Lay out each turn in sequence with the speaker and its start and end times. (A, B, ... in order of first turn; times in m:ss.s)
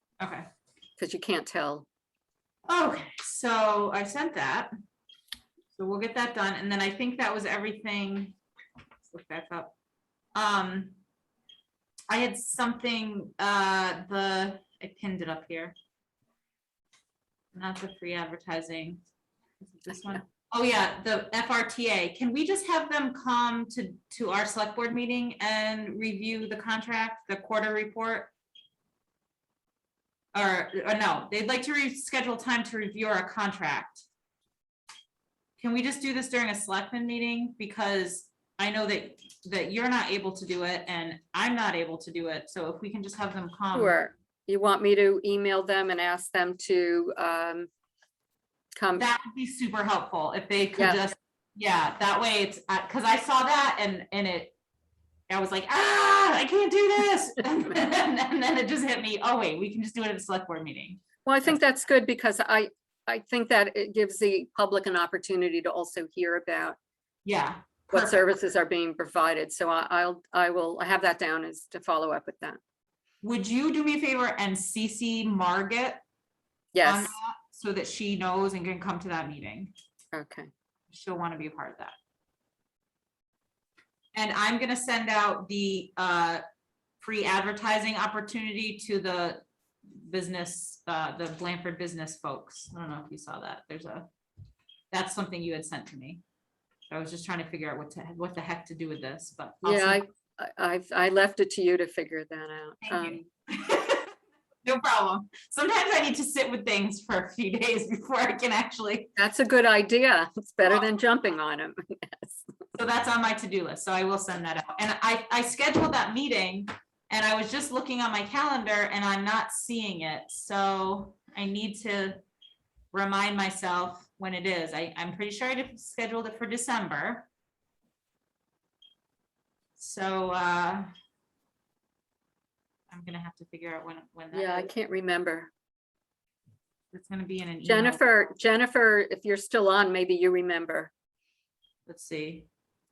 0:00.2-0:00.4 A
0:01.0-0:01.9 B
0:02.7-0:04.7 A
0:05.8-0:08.4 A
0:09.1-0:09.7 A
0:10.3-0:11.0 A
0:12.1-0:15.8 A
0:17.5-0:19.0 A
0:19.9-0:28.3 A
0:30.3-0:34.1 A
0:35.6-0:44.0 A
0:43.7-0:47.7 B
0:48.8-0:49.1 B
0:49.0-0:54.6 A
0:55.3-1:01.0 A
1:01.2-1:06.8 B
1:07.2-1:08.4 A
1:07.9-1:12.6 B
1:13.2-1:16.0 A
1:16.7-1:17.1 B
1:16.8-1:19.7 A
1:20.1-1:20.5 B
1:20.9-1:22.0 A
1:24.1-1:26.4 A
1:27.0-1:34.1 A
1:34.9-1:36.2 A
1:36.9-1:40.0 A
1:39.6-1:43.2 B
1:42.8-1:44.1 A
1:44.6-1:49.2 A
1:49.2-1:52.4 B
1:52.7-2:02.2 A
2:02.9-2:07.3 A
2:09.8-2:10.9 A
2:12.9-2:14.7 A
2:14.3-2:15.5 B
2:16.9-2:18.0 A
2:17.6-2:20.9 B
2:21.9-2:22.5 A